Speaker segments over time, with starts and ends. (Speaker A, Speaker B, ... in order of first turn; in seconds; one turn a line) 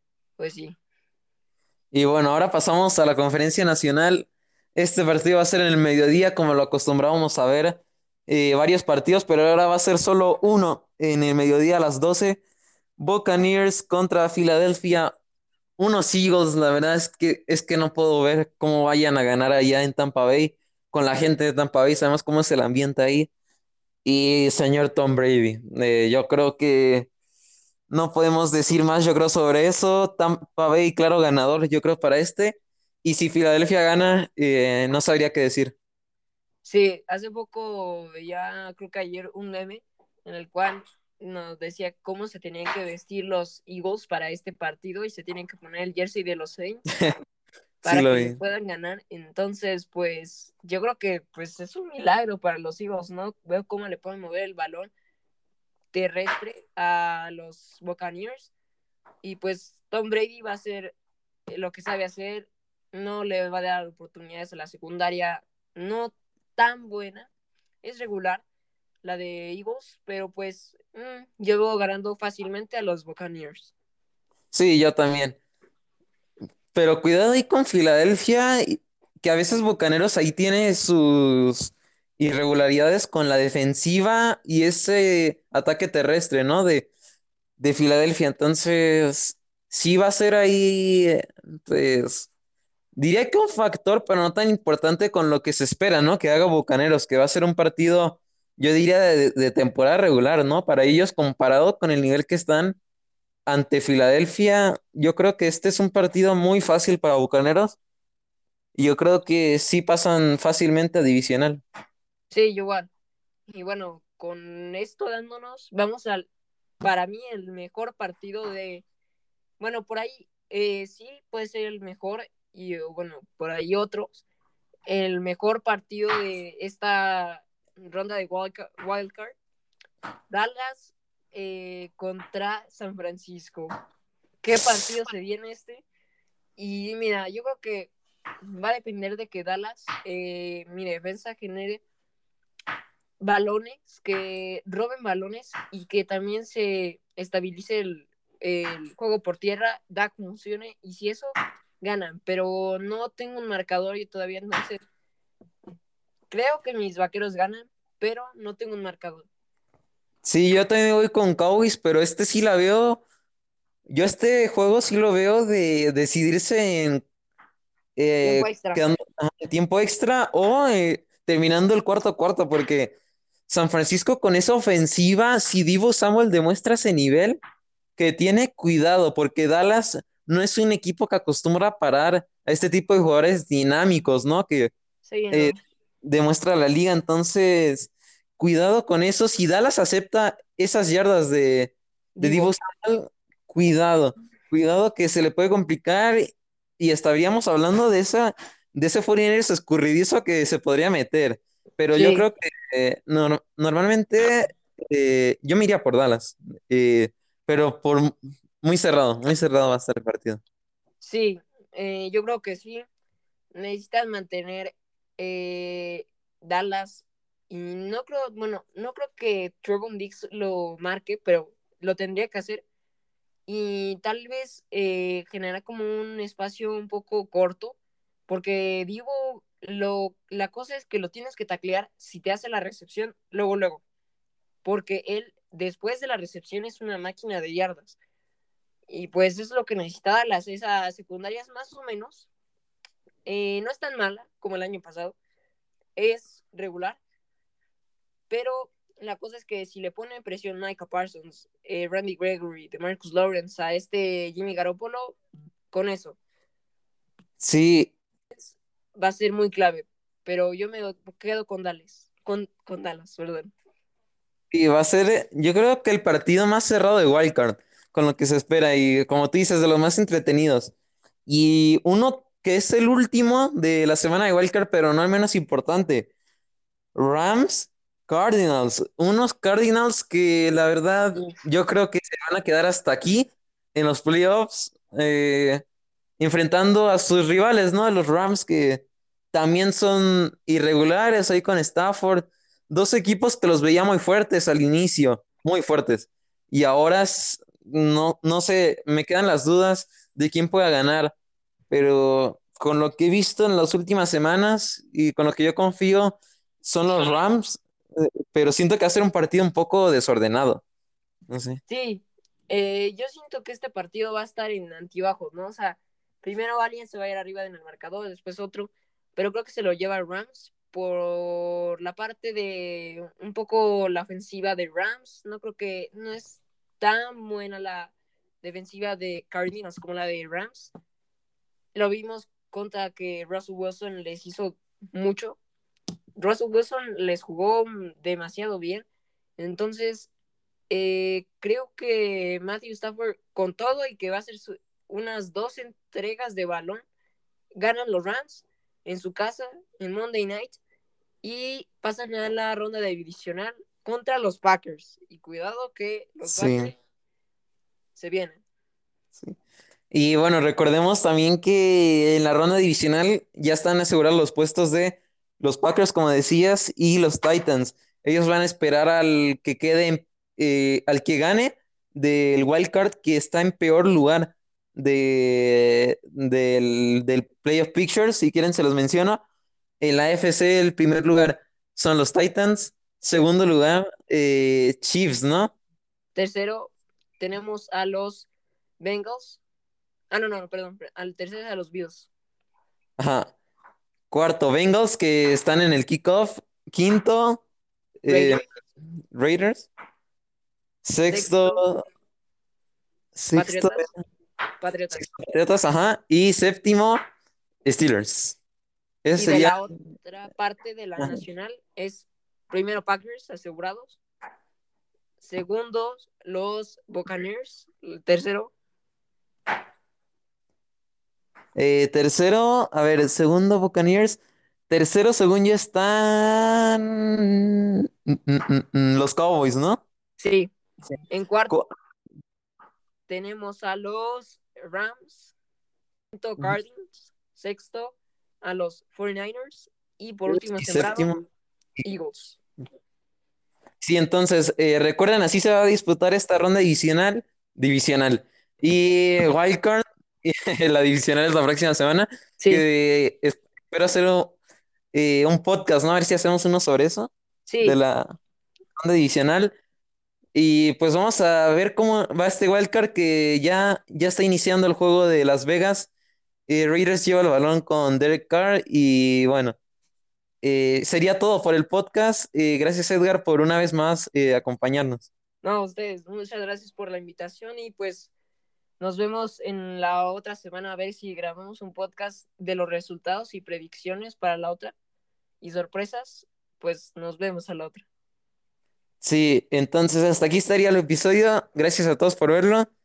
Speaker A: 0.4-0.8
Speaker B: 1.9-12.4
Speaker B: 13.0-15.1
Speaker B: 15.8-23.3
Speaker B: 24.0-27.1
Speaker B: 27.9-35.7
Speaker A: 36.6-46.8
Speaker A: 47.8-54.9
Speaker B: 47.8-48.4
Speaker A: 55.9-58.5
Speaker A: 59.2-60.9
Speaker A: 61.5-67.3
Speaker A: 67.8-68.4
Speaker A: 69.0-73.7
Speaker B: 74.5-75.4
Speaker B: 76.7-86.9
Speaker B: 87.6-92.3
Speaker B: 93.0-102.8
Speaker B: 103.5-107.8
Speaker B: 108.8-111.6
Speaker A: 112.3-112.9
Speaker A: 113.5-116.3
Speaker A: 116.8-118.8
Speaker A: 119.6-124.2
Speaker A: 124.8-129.4
Speaker A: 130.3-133.7
Speaker A: 134.4-135.8
Speaker A: 136.6-137.9
Speaker A: 138.4-141.8
Speaker A: 143.2-154.8
Speaker A: 156.3-159.2
Speaker B: 160.2-163.0
Speaker B: 163.9-167.0
Speaker B: 167.9-172.9
Speaker A: 168.2-168.8
Speaker B: 173.5-177.4
Speaker B: 178.0-184.7
Speaker A: 185.0-185.6
Speaker B: 185.3-210.4
Speaker A: 192.2-192.5
Speaker A: 201.9-202.2
Speaker A: 211.0-212.8
Speaker A: 213.5-222.6
Speaker A: 223.5-227.8
Speaker A: 228.3-233.8
Speaker A: 234.6-238.0
Speaker A: 238.9-242.3
Speaker A: 243.2-245.2
Speaker A: 245.9-247.0
Speaker A: 248.3-255.2
Speaker A: 255.7-256.2
Speaker B: 257.4-257.9
Speaker A: 258.3-263.5
Speaker B: 264.5-270.7
Speaker B: 271.2-276.1
Speaker B: 276.9-285.6
Speaker B: 286.2-301.1
Speaker B: 301.7-310.6
Speaker B: 311.3-311.6
Speaker A: 311.7-330.7
Speaker A: 331.7-335.4
Speaker A: 336.2-338.9
Speaker A: 339.4-340.1
Speaker A: 340.7-346.8
Speaker A: 347.6-350.6
Speaker A: 351.2-356.7
Speaker B: 356.2-356.7
Speaker A: 357.9-358.4
Speaker B: 359.9-379.2
Speaker B: 379.8-385.5
Speaker A: 386.1-388.3
Speaker A: 388.8-389.4
Speaker A: 390.1-392.1
Speaker B: 393.0-393.3
Speaker B: 394.1-397.4
Speaker B: 398.0-398.4
Speaker A: 398.1-398.4
Speaker B: 399.1-399.7
Speaker B: 400.8-401.8
Speaker A: 401.1-401.6
Speaker B: 403.1-403.9
Speaker A: 403.3-403.9
Speaker A: 404.6-405.0
Speaker B: 404.9-407.0
Speaker B: 407.6-408.4
Speaker B: 409.0-409.6
Speaker A: 409.2-414.0
Speaker A: 415.2-418.5
Speaker B: 421.6-429.8
Speaker A: 430.2-430.5
Speaker B: 430.9-431.7
Speaker A: 431.1-431.5
Speaker A: 433.1-435.3
Speaker A: 436.1-441.1
Speaker B: 440.3-441.2
Speaker A: 441.8-442.4
Speaker B: 443.8-454.4
Speaker A: 452.4-452.6
Speaker B: 454.9-457.1
Speaker A: 457.4-457.8
Speaker B: 457.6-458.2
Speaker B: 458.8-459.5
Speaker B: 460.3-465.9
Speaker B: 466.5-469.6
Speaker B: 470.4-475.1
Speaker A: 475.4-478.1
Speaker A: 478.8-484.7
Speaker A: 485.4-487.8
Speaker B: 489.0-492.7